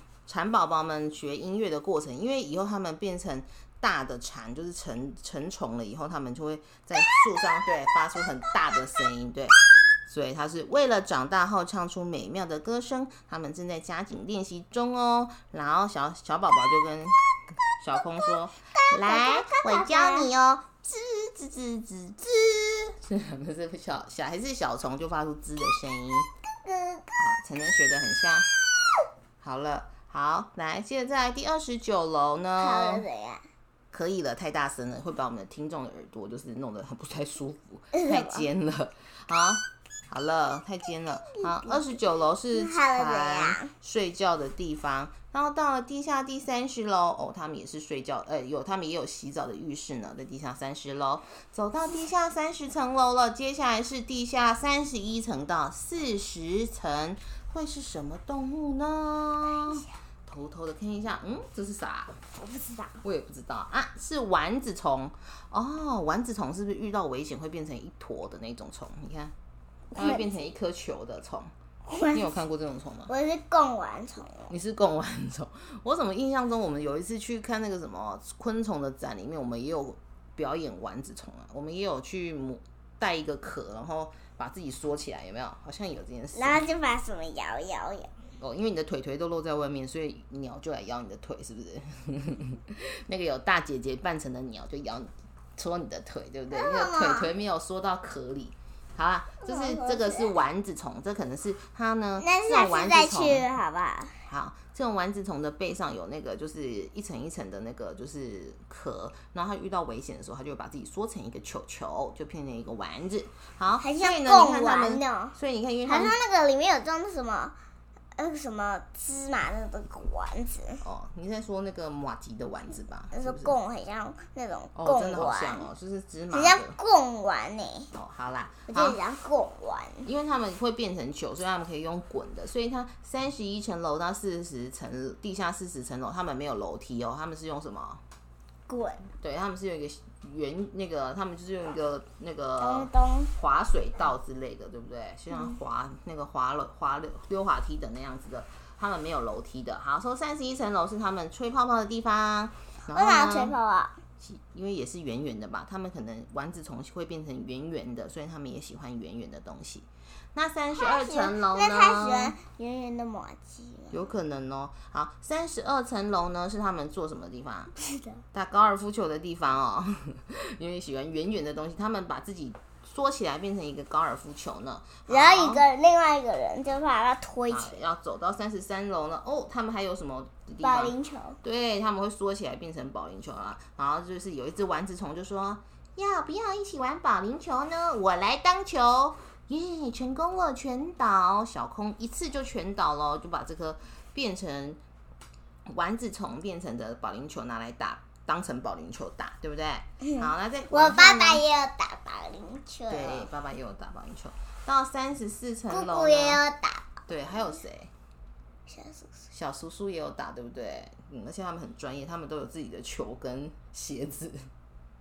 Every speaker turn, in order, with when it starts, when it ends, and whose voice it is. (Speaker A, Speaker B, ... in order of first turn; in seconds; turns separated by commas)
Speaker A: 0.3-26.3, Speaker B: 18.7-20.3, Speaker B: 26.6-27.2, Speaker A: 27.1-28.5, Speaker A: 29.4-33.0, Speaker B: 32.6-33.4, Speaker A: 33.9-62.2, Speaker B: 37.9-38.5, Speaker B: 41.4-41.9, Speaker B: 42.5-43.7, Speaker B: 62.4-63.0, Speaker A: 63.0-69.3, Speaker B: 69.9-70.3, Speaker A: 69.9-71.5, Speaker B: 71.8-72.3, Speaker A: 72.1-73.1, Speaker B: 73.1-74.5, Speaker A: 74.5-86.6, Speaker B: 86.3-88.1, Speaker A: 88.4-103.5, Speaker B: 96.5-97.3, Speaker B: 99.4-100.3, Speaker B: 102.2-104.2, Speaker A: 104.3-116.2, Speaker B: 113.8-117.5, Speaker B: 118.2-120.8, Speaker A: 120.8-123.5, Speaker B: 123.1-125.7, Speaker A: 124.7-126.8, Speaker B: 126.3-127.9, Speaker A: 127.9-129.0, Speaker B: 128.7-130.1, Speaker A: 130.0-138.0, Speaker B: 138.7-139.0, Speaker A: 139.2-153.5, Speaker B: 142.6-143.3, Speaker B: 152.9-154.0, Speaker A: 154.2-162.3, Speaker B: 160.8-164.0, Speaker A: 163.9-167.7, Speaker B: 167.8-168.2, Speaker A: 168.3-175.6, Speaker B: 175.1-177.8, Speaker A: 177.5-194.8, Speaker B: 180.6-181.4, Speaker A: 195.7-201.4, Speaker B: 200.0-203.3, Speaker A: 202.9-206.4, Speaker B: 205.7-207.0, Speaker A: 207.1-207.9, Speaker B: 208.7-209.3, Speaker A: 209.3-214.5